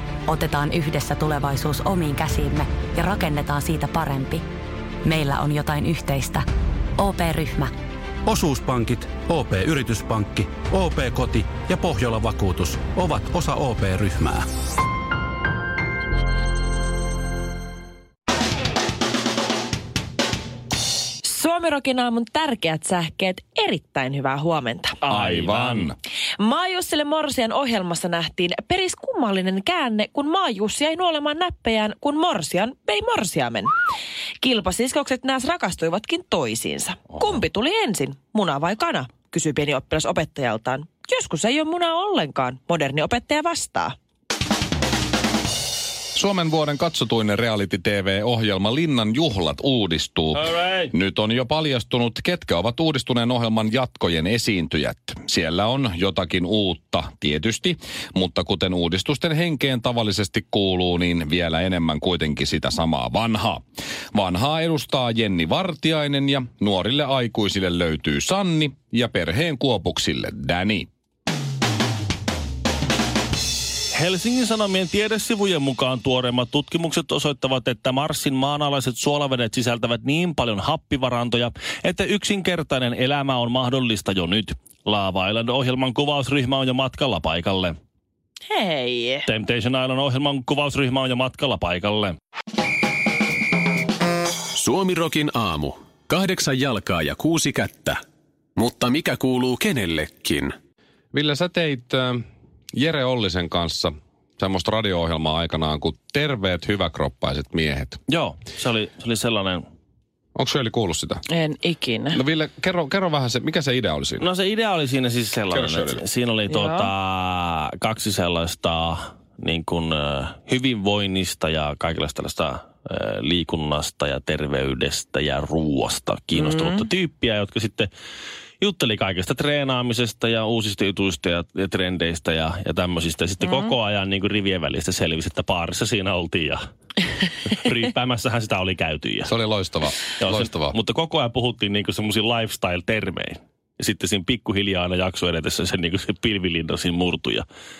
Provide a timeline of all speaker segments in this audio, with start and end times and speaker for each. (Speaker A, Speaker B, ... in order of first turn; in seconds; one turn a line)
Speaker A: 0.3-4.5
Speaker A: 5.0-6.5
Speaker A: 7.0-7.7
Speaker B: 8.3-14.4
Speaker C: 21.2-25.0
Speaker D: 25.0-25.9
Speaker E: 25.1-26.0
Speaker C: 26.4-33.7
Speaker C: 34.4-44.0
Speaker E: 46.1-63.6
Speaker D: 50.3-50.9
Speaker E: 64.1-70.9
Speaker D: 73.9-87.8
Speaker C: 88.5-89.3
Speaker D: 89.3-92.2
Speaker F: 94.5-98.0
Speaker F: 98.6-100.5
Speaker E: 101.1-108.0
Speaker D: 108.1-109.6
Speaker E: 110.3-111.2
Speaker C: 111.3-112.2
Speaker E: 112.1-114.2
Speaker D: 114.2-127.9
Speaker E: 115.5-116.0
Speaker C: 116.5-116.9
Speaker C: 126.3-126.8
Speaker D: 128.6-136.6
Speaker C: 133.4-133.7
Speaker D: 137.5-139.3
Speaker E: 139.2-140.8
Speaker D: 140.1-147.5